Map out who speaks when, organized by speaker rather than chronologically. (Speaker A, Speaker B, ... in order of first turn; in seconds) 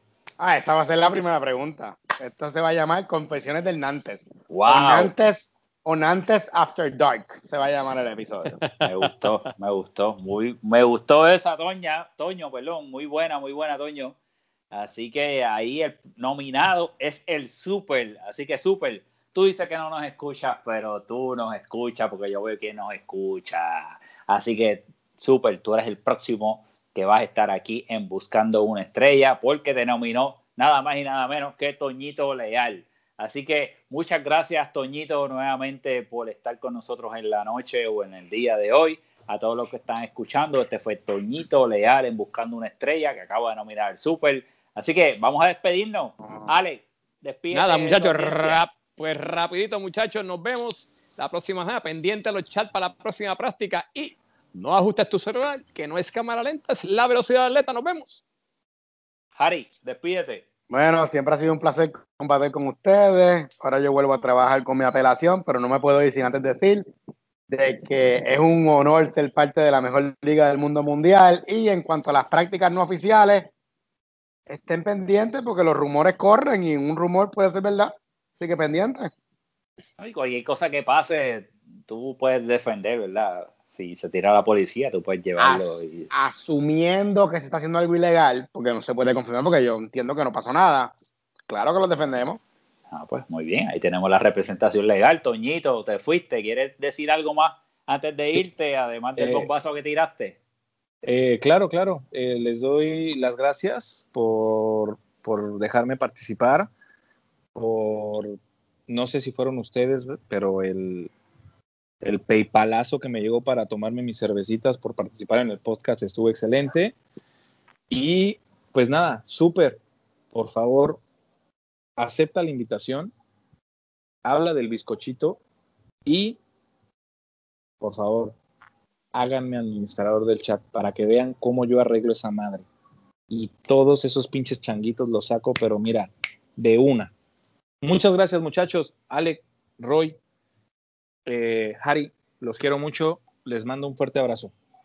Speaker A: 0.4-8.6, 60.7-66.8, 67.5-73.5, 74.5-79.1, 85.4-90.9, 91.5-92.4
Speaker B: 4.5-5.1, 8.8-14.2, 14.7-48.6, 59.4-60.5, 80.0-86.1, 92.9-100.4
Speaker C: 47.5-58.2
Speaker D: 99.2-99.5, 101.0-106.7, 107.5-108.4, 108.9-111.1, 112.0-117.0, 117.9-119.8, 120.3-121.0, 122.0-123.1, 124.2-125.4, 126.0-126.4, 127.8-128.3, 129.1-132.6, 133.3-137.1, 137.8-140.2, 141.2-144.5